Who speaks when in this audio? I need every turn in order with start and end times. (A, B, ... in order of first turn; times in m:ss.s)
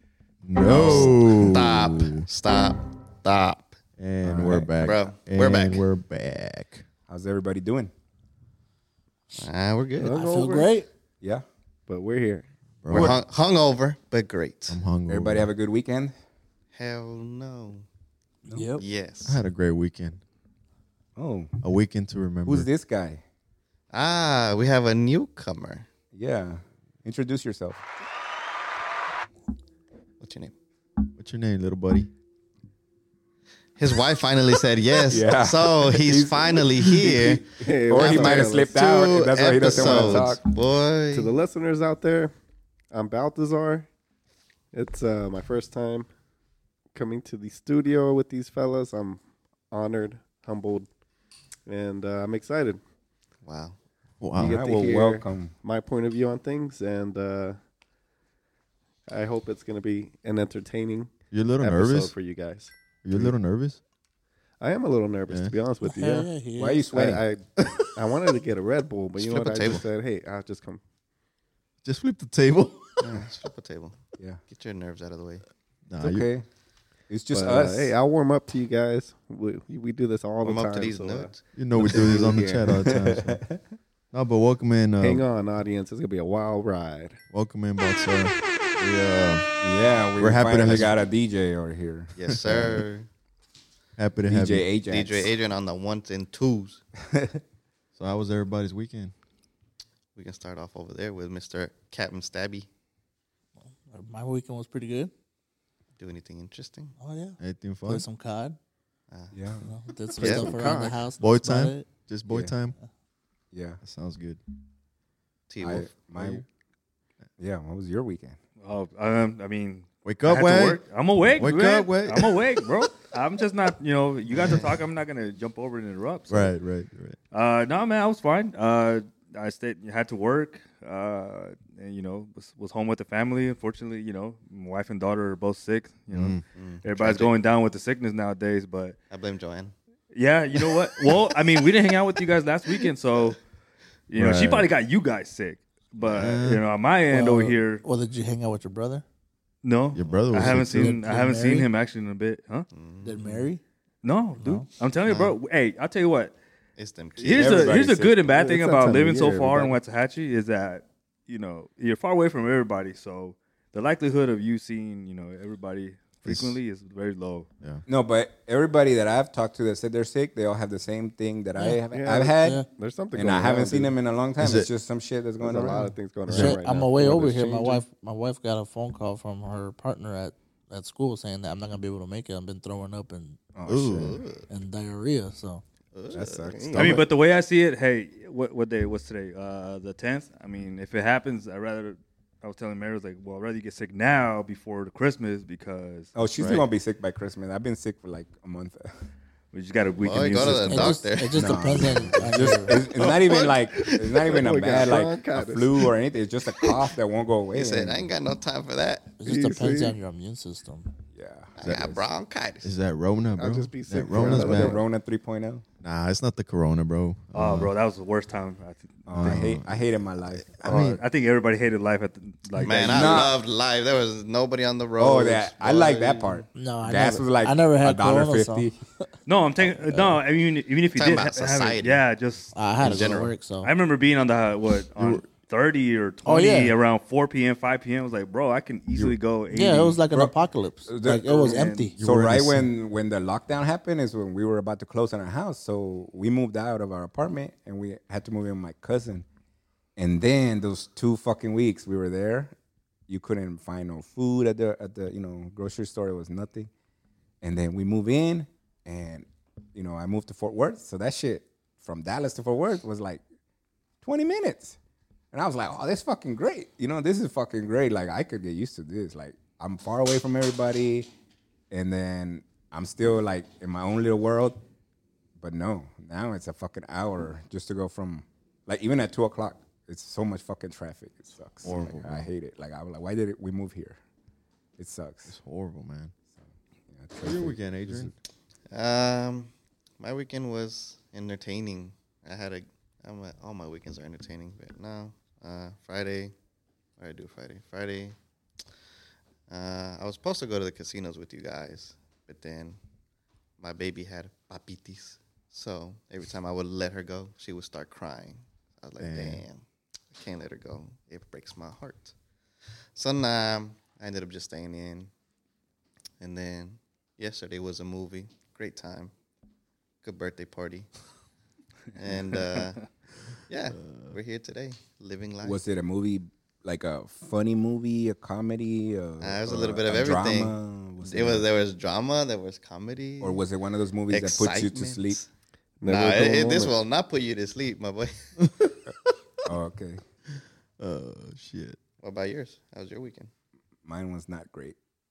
0:00.4-0:02.3 A
0:00.6-0:03.8 B
0:00.7-0:01.2 C
0:04.0-0:06.9 A
0:04.2-0:04.8 C
0:04.8-0:05.8 B
0:07.1-0:07.9 C
0:09.4-0:10.2 B
0:10.0-0:10.9 D
0:10.1-0:10.7 E
0:11.9-0:12.5 E
0:12.8-0:13.2 A
0:12.9-0:14.8 B
0:14.7-0:15.5 A
0:15.1-0:16.1 C
0:16.7-0:17.8 B
0:18.5-0:18.7 C
0:18.5-0:18.8 D
0:18.8-0:19.4 B
0:19.2-0:20.2 A
0:21.2-0:21.6 C
0:21.6-0:22.7 A
0:22.5-0:23.2 C
0:23.9-0:25.9 B
0:26.1-0:27.8 C
0:30.2-0:30.5 B
0:31.2-0:32.1 A
0:33.8-0:41.3 B
0:35.1-0:40.4 C
0:37.6-0:38.8 E
0:41.1-0:42.3 E
0:42.9-0:43.9 E
0:44.7-0:46.1 E
0:47.0-0:49.2 E
0:49.7-0:50.9 E
0:51.7-0:52.8 E
0:53.5-0:53.8 B
0:54.2-0:54.6 A
0:54.4-0:57.6 E
0:54.4-0:55.6 C
0:59.1-1:03.4 E
1:01.3-1:02.1 A
1:03.0-1:03.8 A
1:04.6-1:06.3 E
1:05.3-1:05.5 A
1:05.8-1:06.9 D
1:06.6-1:07.2 C
1:06.9-1:10.8 E
1:09.2-1:09.8 B
1:11.8-1:13.3 A
1:13.0-1:15.4 B
1:15.9-1:16.3 A
1:16.0-1:16.5 C
1:17.1-1:17.9 C
1:17.3-1:21.3 E
1:20.4-1:21.5 B
1:21.6-1:23.4 A
1:21.8-1:23.6 C
1:24.1-1:25.2 A
1:25.0-1:27.2 E
1:27.3-1:29.5 A
1:29.6-1:32.2 C
1:30.2-1:31.0 A
1:32.2-1:33.1 B
1:32.3-1:32.8 A
1:34.0-1:34.7 A
1:34.3-1:35.3 C
1:34.8-1:36.8 B
1:37.1-1:37.4 C
1:38.0-1:39.1 A
1:40.2-1:42.7 B
1:43.9-1:45.1 D
1:46.0-1:47.0 B
1:47.0-1:48.6 D
1:47.4-1:48.1 A
1:49.3-1:49.7 C
1:49.6-1:51.9 D
1:50.2-1:50.7 B
1:51.2-1:52.8 A
1:52.3-1:52.5 C
1:53.5-1:53.8 C
1:53.8-1:54.4 A
1:55.5-1:56.0 B
1:55.6-1:56.4 C
1:56.2-1:56.4 A
1:57.4-1:58.4 C
1:58.6-2:06.5 F
2:00.0-2:02.4 A
2:04.4-2:04.8 B
2:06.3-2:07.2 A
2:07.3-2:19.0 F
2:16.1-2:16.4 A
2:16.6-2:17.3 B
2:19.1-2:19.7 B
2:20.1-2:23.4 F
2:24.1-2:27.8 F
2:24.2-2:24.7 A
2:26.0-2:26.6 A
2:27.1-2:29.0 D
2:29.6-2:32.7 F
2:29.9-2:31.0 A
2:30.4-2:31.7 D
2:32.7-2:33.2 B
2:33.0-2:33.6 D
2:34.0-2:36.3 F
2:34.4-2:34.7 D
2:36.8-2:37.8 B
2:37.2-2:38.2 C
2:37.2-2:47.5 F
2:38.3-2:39.8 E
2:46.3-2:46.6 A
2:47.9-2:55.9 C
2:51.9-2:54.0 E
2:52.4-2:52.7 D
2:54.4-2:54.7 A
2:55.4-2:57.8 E
2:56.3-2:56.6 A
2:56.3-3:03.4 D
3:03.6-3:04.1 C
3:03.7-3:04.2 A
3:03.7-3:04.4 B
3:04.5-3:05.6 D
3:05.9-3:07.0 B
3:06.1-3:07.0 C
3:06.7-3:16.1 F
3:16.2-3:19.0 C
3:16.4-3:16.6 A
3:19.5-3:21.0 F
3:20.0-3:21.4 B
3:20.4-3:22.8 D
3:21.3-3:28.1 C
3:23.0-3:24.1 B
3:24.2-3:25.9 E
3:27.5-3:29.2 B
3:29.2-3:30.9 D
3:29.2-3:30.0 E
3:31.1-3:32.0 C
3:31.6-3:32.7 B
3:31.6-3:31.9 A
3:32.6-3:34.8 A
3:33.4-3:34.9 E
3:34.2-3:35.6 C
3:35.8-3:37.7 A
3:37.3-3:39.4 F
3:39.1-3:41.0 C
3:39.1-3:41.0 A
3:40.6-3:43.3 F
3:42.6-3:46.4 B
3:42.6-3:43.4 C
3:45.0-3:48.8 C
3:46.5-3:48.7 D
3:49.3-4:00.0 F
3:49.7-3:50.0 D
3:50.9-3:52.0 B
3:52.5-3:53.7 D
3:52.8-3:53.3 B
3:55.0-3:55.2 A
3:56.2-3:56.7 D
3:59.5-4:02.0 D
4:00.1-4:09.3 C
4:01.4-4:01.9 F
4:02.0-4:02.7 A
4:10.0-4:12.5 C
4:13.1-4:16.7 C
4:17.4-4:23.2 C
4:24.0-4:24.8 C
4:25.3-4:31.1 C
4:31.7-4:34.6 C
4:35.4-4:44.0 C
4:41.6-4:42.3 A
4:44.8-4:45.4 C
4:45.3-4:46.1 A
4:46.3-4:48.2 C
4:47.2-4:48.1 A
4:48.7-4:56.3 B
4:57.0-4:58.2 B
4:59.5-5:02.8 B
5:03.6-5:12.1 B
5:09.0-5:09.4 A
5:13.0-5:15.1 B
5:16.2-5:19.1 B
5:20.0-5:20.9 B
5:22.0-5:22.8 B
5:23.5-5:25.6 B
5:23.8-5:24.2 A
5:25.4-5:31.5 C
5:29.2-5:33.4 B
5:33.2-5:35.2 C
5:34.1-5:35.3 B
5:35.8-5:36.7 E
5:35.9-5:38.1 B
5:38.4-5:39.2 A
5:39.5-5:40.0 C
5:40.8-5:41.8 A
5:42.0-5:43.3 B
5:43.8-5:44.8 C